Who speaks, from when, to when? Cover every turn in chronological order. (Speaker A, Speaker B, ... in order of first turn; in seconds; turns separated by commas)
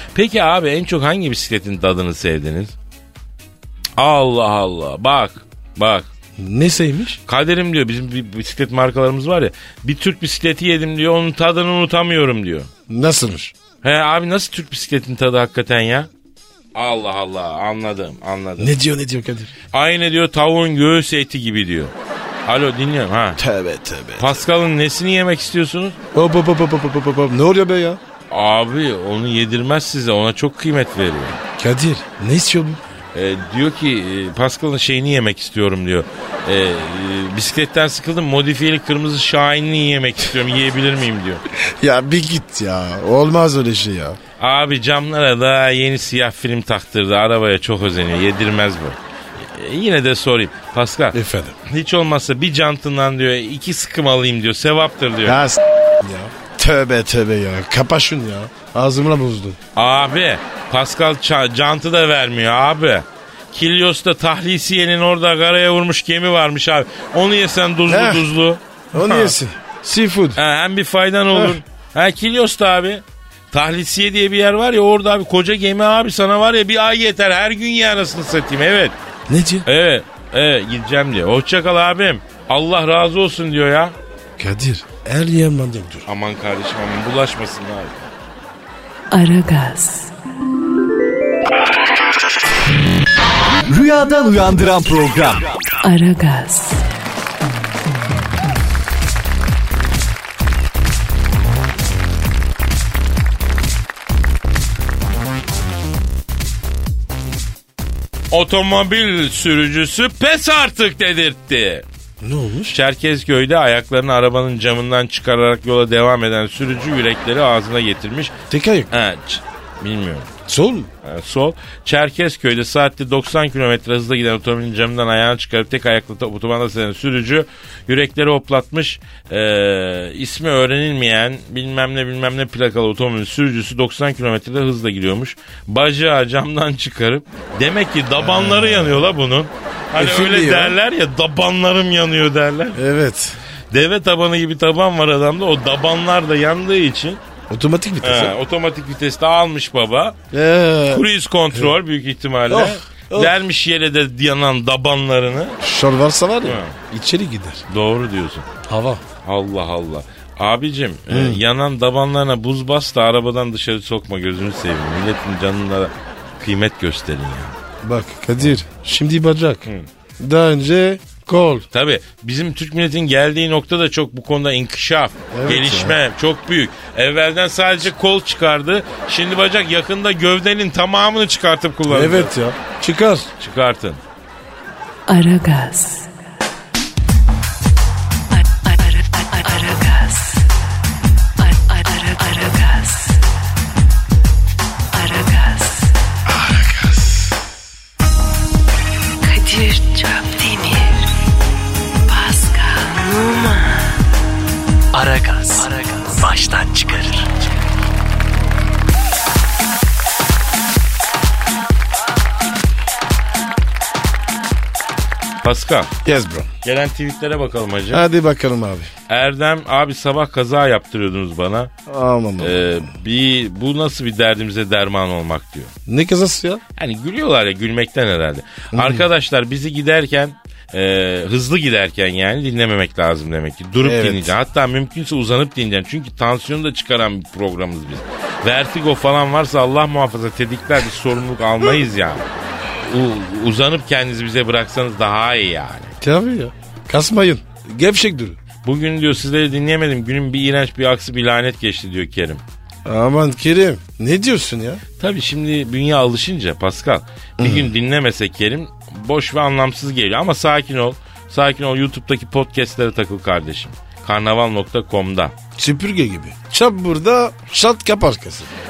Speaker A: 0.1-2.7, Speaker A: 4.0-6.1, Speaker B: 6.4-7.2, Speaker A: 7.3-12.7, Speaker B: 12.9-13.5, Speaker A: 13.8-16.1, Speaker A: 16.8-18.8, Speaker B: 18.6-19.5, Speaker A: 19.7-21.9, Speaker A: 22.5-23.4, Speaker B: 23.4-24.4, Speaker A: 24.2-26.0, Speaker B: 26.1-28.0, Speaker A: 28.3-31.4, Speaker B: 31.6-32.8, Speaker A: 33.1-41.4, Speaker B: 41.6-44.2, Speaker A: 44.4-55.4, Speaker B: 51.1-51.6, Speaker B: 55.2-59.6, Speaker A: 59.8-69.3, Speaker B: 67.9-68.3, Speaker B: 68.9-70.4, Speaker A: 70.4-79.0, Speaker B: 71.3-71.6, Speaker B: 79.3-79.7, Speaker A: 79.7-84.0, Speaker B: 84.4-86.1, Speaker A: 86.1-88.1, Speaker C: 89.1-90.1, Speaker D: 93.7-95.5, Speaker C: 95.8-96.8, Speaker A: 108.3-111.8, Speaker B: 112.2-112.8, Speaker A: 112.7-118.4, Speaker B: 118.5-118.9, Speaker A: 118.9-120.3, Speaker B: 120.5-120.9, Speaker A: 121.0-142.8, Speaker B: 138.2-139.1, Speaker B: 139.9-140.8, Speaker B: 142.8-143.4, Speaker A: 143.7-147.2, Speaker B: 147.5-148.3, Speaker A: 148.0-150.2, Speaker B: 150.3-151.8, Speaker A: 150.9-155.6, Speaker B: 152.5-153.3, Speaker B: 155.6-157.6, Speaker A: 156.4-156.8, Speaker A: 157.7-158.5, Speaker B: 158.7-159.0, Speaker A: 159.2-167.6, Speaker B: 161.1-161.4, Speaker B: 167.8-169.7, Speaker B: 170.2-171.7, Speaker A: 171.7-182.3, Speaker B: 175.3-176.0, Speaker B: 181.9-183.3, Speaker A: 183.4-184.0, Speaker C: 185.1-186.1, Speaker C: 188.3-190.5, Speaker C: 191.4-193.2, Speaker C: 194.9-195.9, Speaker C: 199.2-201.1, Speaker C: 202.1-204.0, Speaker D: 204.9-207.3, Speaker A: 215.4-215.9, Speaker B: 216.0-216.5, Speaker A: 216.6-218.1, Speaker B: 217.9-218.9, Speaker A: 219.1-221.7, Speaker B: 221.9-222.9, Speaker A: 222.4-225.7, Speaker B: 225.9-226.6, Speaker A: 226.8-242.3, Speaker B: 228.7-229.1, Speaker B: 233.8-234.4, Speaker A: 242.8-245.9, Speaker B: 246.0-248.4, Speaker A: 248.6-252.4, Speaker B: 252.8-254.8, Speaker A: 255.0-265.4, Speaker B: 257.4-257.7, Speaker B: 265.6-268.5